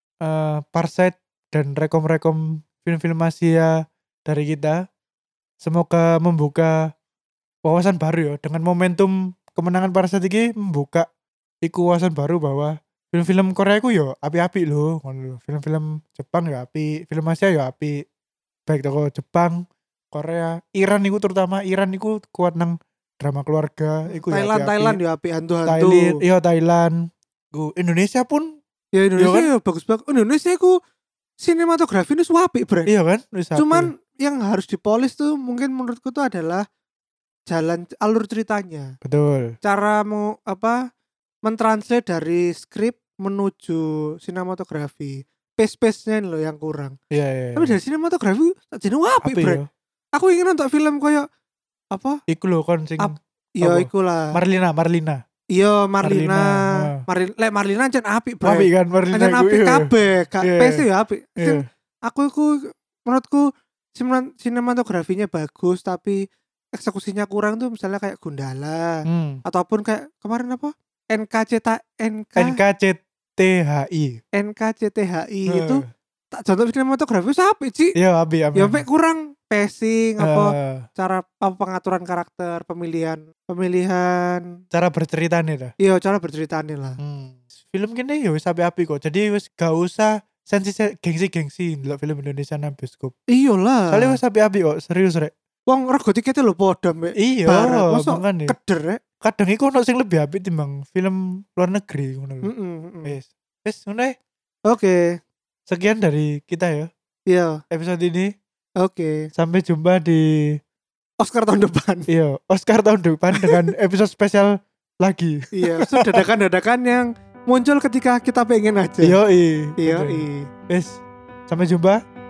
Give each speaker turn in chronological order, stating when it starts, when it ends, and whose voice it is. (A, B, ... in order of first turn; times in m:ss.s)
0:00.2-0:03.7 A
0:04.3-0:04.8 A
0:05.6-0:06.8 A
0:07.6-0:11.1 A
0:11.6-0:18.0 A
0:18.7-0:25.0 A
0:24.1-0:26.2 B
0:25.7-0:28.6 A
0:29.0-0:30.8 B
0:29.2-0:29.5 A
0:31.4-0:32.9 B
0:32.9-0:33.9 A
0:33.6-0:36.6 B
0:37.5-0:38.9 B
0:39.0-0:39.6 A
0:39.6-0:40.9 B
0:41.4-0:47.0 B
0:47.1-0:47.8 A
0:47.6-0:49.6 B
0:49.2-0:49.7 A
0:50.1-0:51.3 B
0:51.9-0:52.2 B
0:52.3-0:55.2 A
0:53.0-0:54.4 B
0:55.5-1:06.2 B
0:56.0-0:57.0 A
0:58.4-1:00.8 A
1:01.4-1:01.7 A
1:06.8-1:12.6 B
1:09.1-1:09.4 A
1:12.4-1:14.2 A
1:14.3-1:18.0 B
1:15.5-1:15.9 A
1:18.0-1:18.8 A
1:18.6-1:24.5 B
1:20.2-1:20.9 A
1:24.7-1:25.7 A
1:25.8-1:27.0 B
1:27.0-1:33.2 A
1:33.3-1:34.2 B
1:33.9-1:35.3 A
1:35.7-1:39.0 B
1:37.2-1:38.6 A
1:39.2-1:42.5 A
1:42.4-1:43.2 B
1:43.0-1:44.2 A
1:44.7-1:45.2 B
1:45.7-1:46.9 A
1:47.3-1:47.6 B
1:47.7-1:48.3 A
1:48.8-1:49.3 B
1:49.4-1:50.3 A
1:51.2-1:52.1 B
1:52.1-1:56.2 A
1:53.4-1:53.7 B
1:55.6-1:59.2 B
1:59.0-2:02.0 A
1:59.8-2:00.5 B